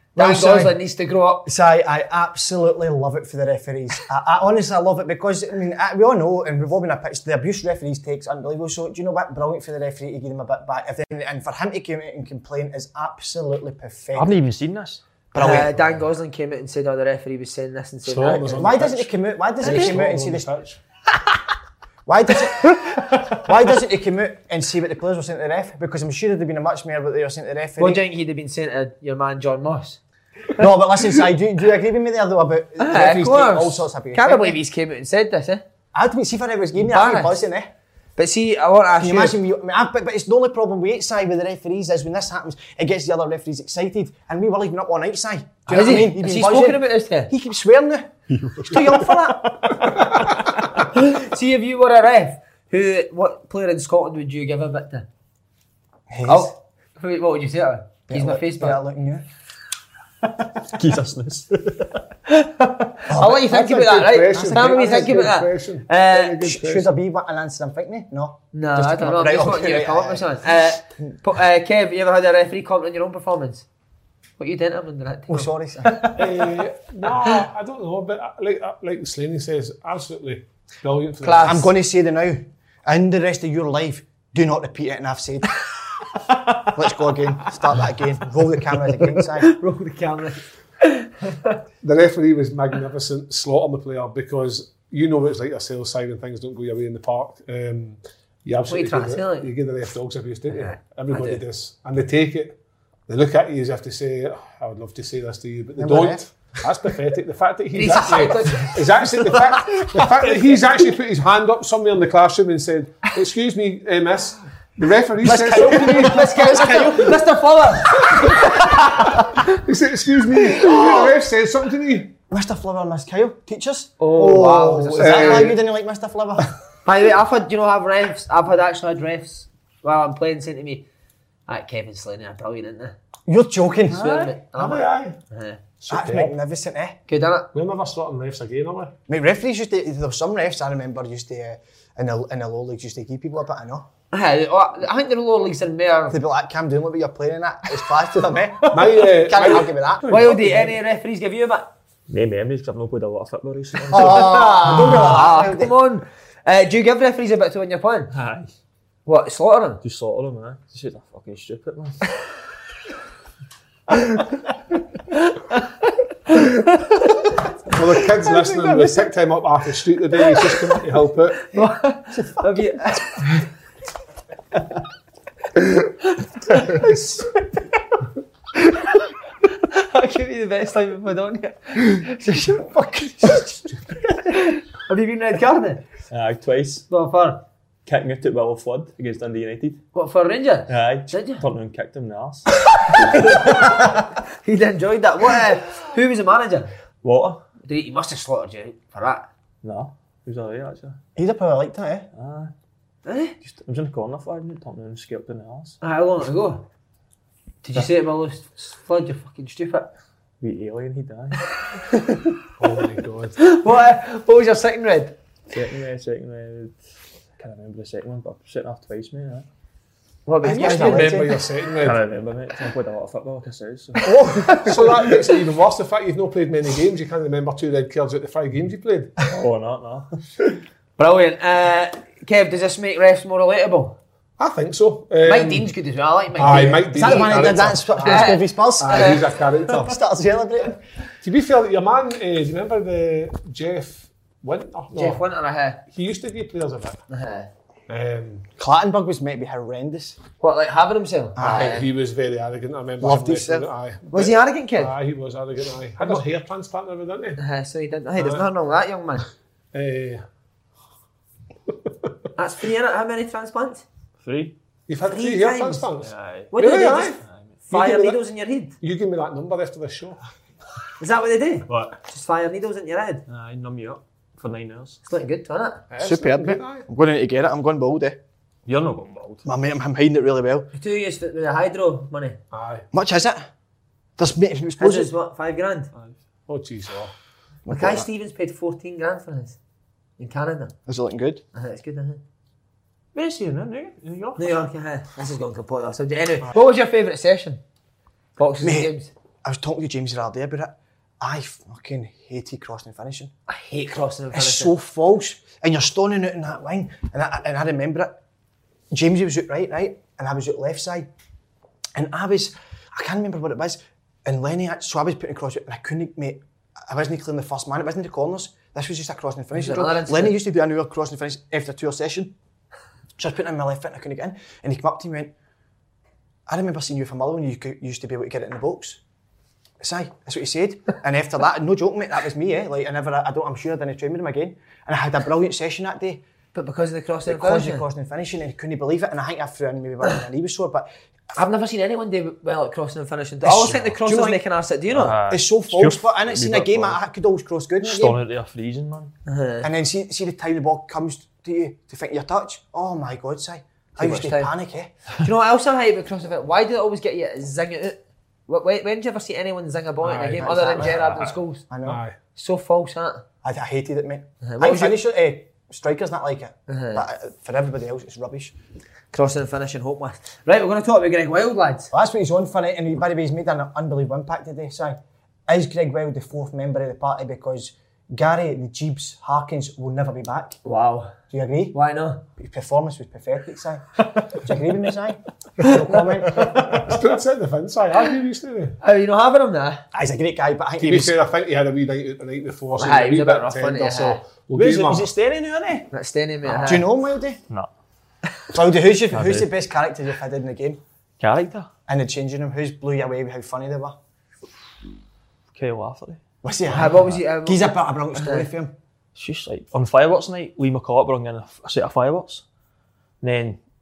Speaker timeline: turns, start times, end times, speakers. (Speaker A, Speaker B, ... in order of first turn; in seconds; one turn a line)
Speaker A: 0.1-0.8
Speaker B: 0.1-1.5
Speaker A: 1.4-14.4
Speaker C: 14.1-15.0
Speaker A: 15.3-16.0
Speaker B: 15.3-18.8
Speaker D: 18.0-20.8
Speaker A: 18.6-20.5
Speaker B: 19.6-20.0
Speaker A: 22.1-22.8
Speaker A: 23.3-28.0
Speaker B: 27.8-30.0
Speaker A: 30.5-34.6
Speaker B: 32.8-35.6
Speaker A: 35.9-37.7
Speaker B: 36.8-37.4
Speaker B: 38.1-39.4
Speaker A: 39.0-49.8
Speaker B: 45.7-47.3
Speaker C: 48.4-48.9
Speaker B: 50.8-55.1
Speaker A: 56.1-56.5
Speaker B: 56.2-58.8
Speaker A: 58.1-59.2
Speaker C: 60.7-62.0
Speaker B: 62.3-66.5
Speaker A: 63.1-63.6
Speaker D: 63.3-66.9
Speaker A: 64.3-65.3
Speaker A: 66.4-71.2
Speaker B: 68.5-73.7
Speaker B: 74.4-77.4
Speaker A: 75.3-76.1
Speaker D: 76.2-81.6
Speaker B: 81.2-81.7
Speaker A: 81.4-85.5
Speaker A: 86.6-89.5
Speaker B: 88.9-91.6
Speaker D: 91.8-102.6
Speaker B: 98.7-99.5
Speaker B: 100.5-101.4
Speaker D: 103.1-117.1
Speaker A: 105.8-106.2
Speaker B: 107.7-109.5
Speaker A: 115.2-117.1
Speaker B: 115.2-119.5
Speaker D: 118.8-122.1
Speaker A: 122.3-126.5
Speaker B: 124.0-125.6
Speaker D: 124.9-125.6
Speaker B: 126.8-130.9
Speaker B: 131.5-132.9
Speaker A: 133.3-134.3
Speaker B: 133.9-135.7
Speaker D: 134.0-135.2
Speaker D: 135.8-136.3
Speaker A: 135.9-137.0
Speaker B: 137.1-137.5
Speaker D: 137.5-138.9
Speaker A: 139.1-143.9
Speaker B: 144.1-146.2
Speaker A: 146.1-150.4
Speaker B: 148.7-151.7
Speaker D: 148.7-150.7
Speaker C: 152.1-154.5
Speaker B: 153.9-158.1
Speaker A: 153.9-155.8
Speaker C: 158.1-158.5
Speaker B: 159.1-159.8
Speaker C: 159.8-162.0
Speaker B: 165.2-165.6
Speaker B: 166.3-166.9
Speaker D: 167.7-171.5
Speaker B: 168.3-168.9
Speaker B: 170.3-170.8
Speaker B: 171.5-173.5
Speaker B: 176.1-177.6
Speaker B: 178.6-179.0
Speaker B: 179.5-185.9
Speaker C: 186.1-186.8
Speaker B: 186.9-187.4
Speaker C: 187.8-189.8
Speaker B: 189.9-191.4
Speaker C: 190.7-192.5
Speaker B: 192.9-196.7
Speaker C: 193.0-193.4
Speaker C: 197.0-197.4
Speaker B: 197.6-199.3
Speaker C: 199.6-201.0
Speaker A: 201.2-202.1
Speaker C: 202.1-202.5
Speaker B: 203.0-203.3
Speaker C: 203.4-205.8
Speaker B: 205.8-206.7
Speaker B: 207.6-209.9
Speaker C: 210.4-211.5
Speaker B: 211.9-212.4
Speaker D: 212.6-213.4
Speaker B: 213.4-215.2
Speaker C: 215.5-216.8
Speaker C: 217.4-219.4
Speaker B: 220.2-221.4
Speaker A: 220.4-221.4
Speaker D: 220.4-222.0
Speaker C: 221.8-224.6
Speaker B: 224.1-225.1
Speaker A: 224.1-224.7
Speaker D: 224.5-229.2
Speaker C: 229.2-230.2
Speaker B: 231.0-234.0
Speaker D: 234.4-235.7
Speaker B: 235.2-239.3
Speaker D: 236.3-239.9
Speaker A: 236.9-240.8
Speaker D: 241.2-245.2
Speaker B: 244.9-245.8
Speaker D: 245.9-247.0
Speaker B: 247.1-247.5
Speaker D: 247.9-248.4
Speaker A: 248.6-250.2
Speaker B: 250.4-251.9
Speaker A: 251.4-251.8
Speaker D: 251.4-257.4
Speaker A: 253.0-253.7
Speaker B: 254.1-254.9
Speaker B: 257.4-259.3
Speaker D: 258.2-258.5
Speaker D: 259.7-260.2
Speaker B: 262.4-263.8
Speaker C: 264.2-264.5
Speaker D: 264.9-267.2
Speaker B: 265.1-265.9
Speaker C: 266.0-266.5
Speaker B: 266.5-268.8
Speaker C: 267.3-267.5
Speaker D: 267.7-268.2
Speaker D: 268.8-270.2
Speaker B: 271.0-273.2
Speaker C: 271.7-272.0
Speaker C: 273.3-275.0
Speaker B: 275.1-275.9
Speaker D: 275.9-276.9
Speaker A: 276.0-278.2
Speaker C: 278.6-279.4
Speaker A: 279.4-280.7
Speaker B: 280.7-282.4
Speaker D: 282.5-282.9
Speaker A: 282.9-283.5
Speaker A: 284.2-285.1
Speaker B: 284.8-285.9
Speaker D: 286.5-287.1
Speaker A: 287.6-288.1
Speaker B: 287.7-289.6
Speaker B: 290.2-290.7
Speaker A: 290.9-291.4
Speaker B: 291.5-292.2
Speaker C: 293.1-294.6
Speaker B: 294.4-297.6
Speaker B: 298.4-299.1
Speaker A: 298.6-298.9
Speaker A: 299.4-303.3
Speaker B: 303.5-304.7
Speaker A: 304.3-308.1
Speaker A: 308.9-311.1
Speaker A: 311.9-322.3
Speaker B: 319.5-320.4
Speaker A: 323.2-325.3
Speaker A: 326.5-329.0
Speaker A: 329.8-336.2
Speaker B: 336.5-337.8
Speaker A: 337.2-340.9
Speaker B: 341.3-345.2
Speaker A: 343.4-344.4
Speaker C: 344.9-347.0
Speaker A: 345.3-348.2
Speaker C: 347.8-349.1
Speaker B: 349.2-349.7
Speaker A: 349.6-354.9
Speaker B: 354.0-354.5
Speaker B: 355.2-361.6
Speaker D: 360.0-360.9
Speaker A: 360.5-360.9
Speaker C: 360.8-361.3
Speaker A: 361.7-362.0
Speaker D: 361.8-362.2
Speaker B: 362.3-363.2
Speaker A: 363.4-368.5
Speaker B: 364.4-364.9
Speaker B: 366.7-367.0
Speaker B: 369.1-371.9
Speaker A: 371.9-380.6
Speaker B: 380.6-381.1
Speaker A: 381.3-381.8
Speaker B: 381.7-382.2
Speaker A: 382.4-386.6
Speaker B: 386.4-386.8
Speaker D: 386.6-388.8
Speaker B: 388.8-389.8
Speaker A: 389.9-391.1
Speaker D: 390.8-395.1
Speaker B: 392.8-394.2
Speaker C: 394.5-395.9
Speaker B: 395.9-396.9
Speaker C: 396.4-396.8
Speaker A: 396.6-397.4
Speaker A: 398.5-400.8
Speaker C: 399.1-399.5
Speaker C: 401.2-401.7
Speaker A: 401.9-404.0
Speaker C: 405.5-407.2
Speaker A: 406.4-408.7
Speaker B: 406.7-408.5
Speaker C: 409.1-412.4
Speaker C: 413.2-413.6